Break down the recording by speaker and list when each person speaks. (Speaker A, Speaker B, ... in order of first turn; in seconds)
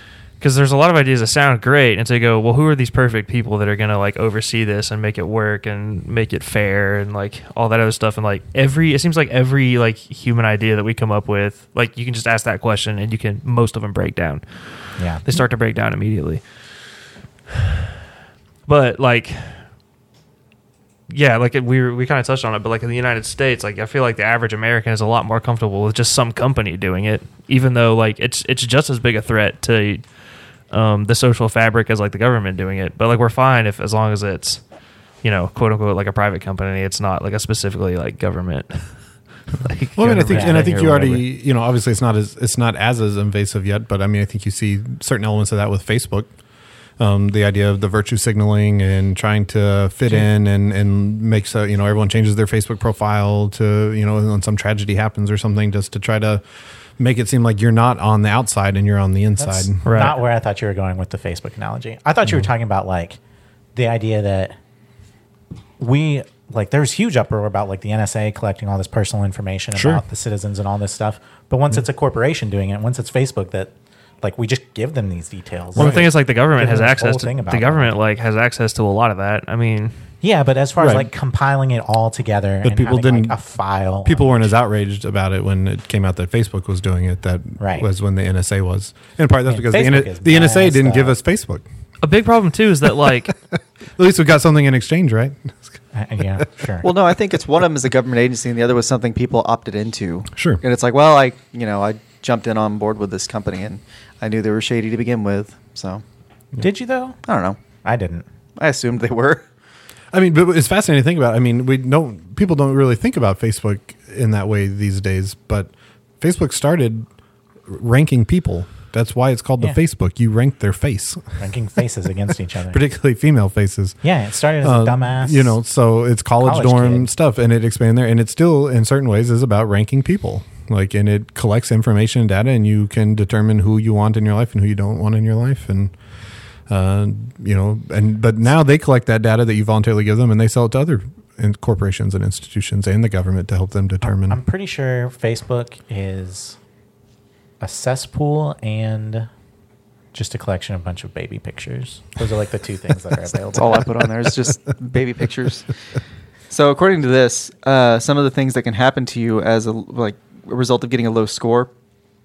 Speaker A: 0.4-16.9, 17.5-17.9, 18.6-19.7, 21.1-30.1, 30.7-34.6, 35.2-41.2, 59.8-60.2, 75.8-80.0, 92.0-93.3
Speaker B: 15.0-15.4, 40.2-40.7, 59.4-63.2, 63.8-64.5, 65.8-78.0, 80.2-84.5, 87.6-87.8, 89.5-91.2, 95.9-96.9, 106.6-107.2, 107.8-108.2, 121.4-122.8, 124.0-125.6, 126.4-127.1, 144.0-146.6, 147.6-149.3, 150.1-153.9
Speaker C: 40.0-46.3, 47.0-56.4, 57.0-59.8, 69.7-70.0, 75.7-76.1, 80.8-81.1, 82.6-83.3, 84.0-91.6, 93.0-95.8, 100.3-100.6, 110.1-117.0, 117.7-121.4, 122.7-124.0, 124.6-135.9, 136.7-144.4
Speaker D: 96.8-106.0, 107.2-107.6, 108.6-109.4, 153.5-155.7, 156.5-161.7